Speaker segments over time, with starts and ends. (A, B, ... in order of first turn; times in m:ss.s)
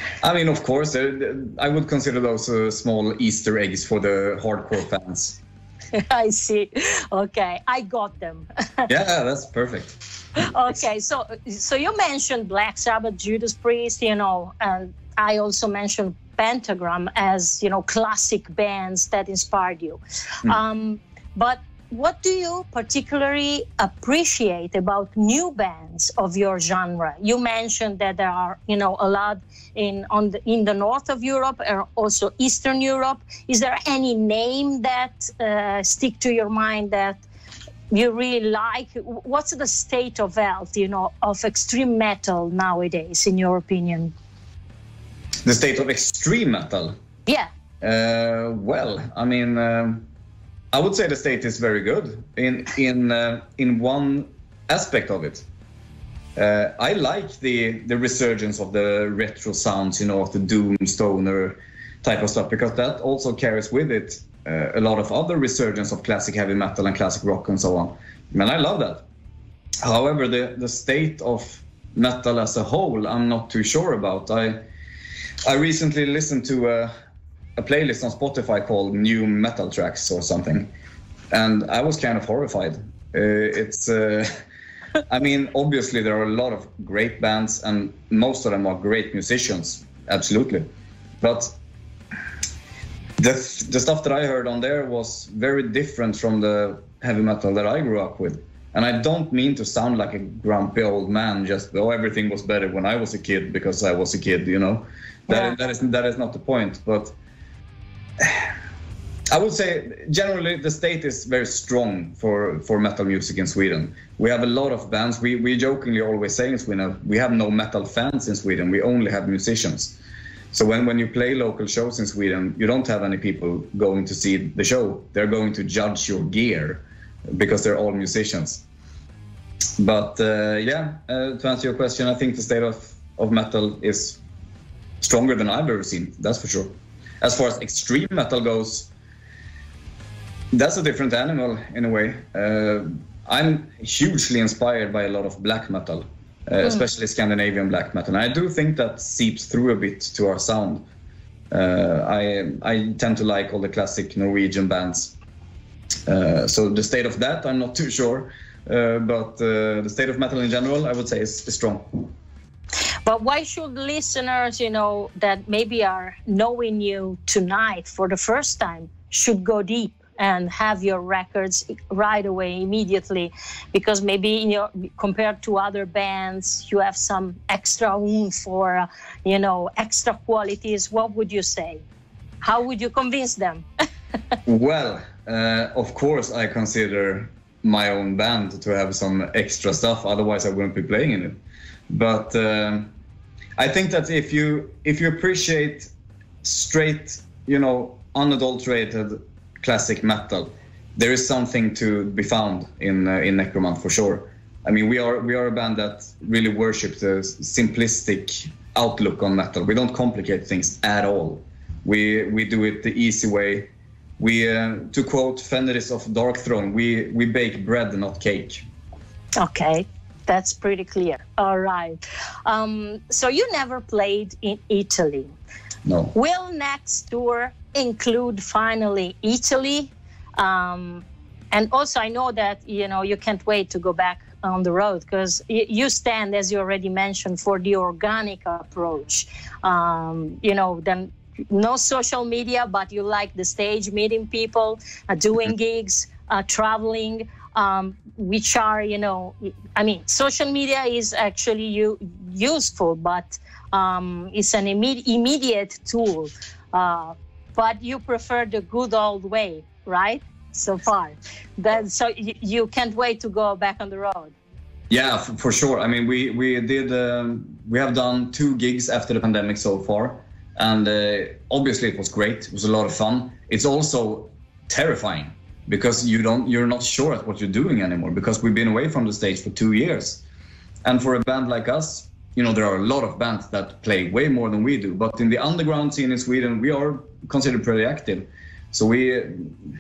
0:00.2-0:05.4 A
0:05.9-0:08.9 B
0:08.9-0:10.0 A
0:10.4-0:37.2 B
0:37.9-0:44.1 B
0:45.4-0:46.9 A
0:47.8-0:50.0 A
0:50.7-0:55.4 A
0:56.4-1:09.0 A
1:09.8-1:14.6 A
1:15.4-1:16.9 A
1:17.6-1:20.7 A
1:21.3-1:24.3 A
1:25.1-1:30.7 A
1:31.2-1:31.6 A
1:33.2-1:47.2 A
1:48.2-1:48.5 A
1:49.3-2:00.0 A
2:00.5-2:08.6 A
2:09.8-2:14.2 A
2:15.0-2:18.9 A
2:20.5-2:30.9 A
2:31.5-2:35.1 A
2:36.1-2:42.1 A
2:43.1-3:01.8 B
3:02.4-3:03.6 B
3:04.4-3:11.4 A
3:11.9-3:12.9 A
3:13.6-3:15.9 A
3:16.4-3:38.6 A
3:39.4-3:45.3 B
3:45.9-3:46.1 A
3:46.1-4:24.3 B
4:24.9-4:40.2 A
4:40.8-4:49.5 A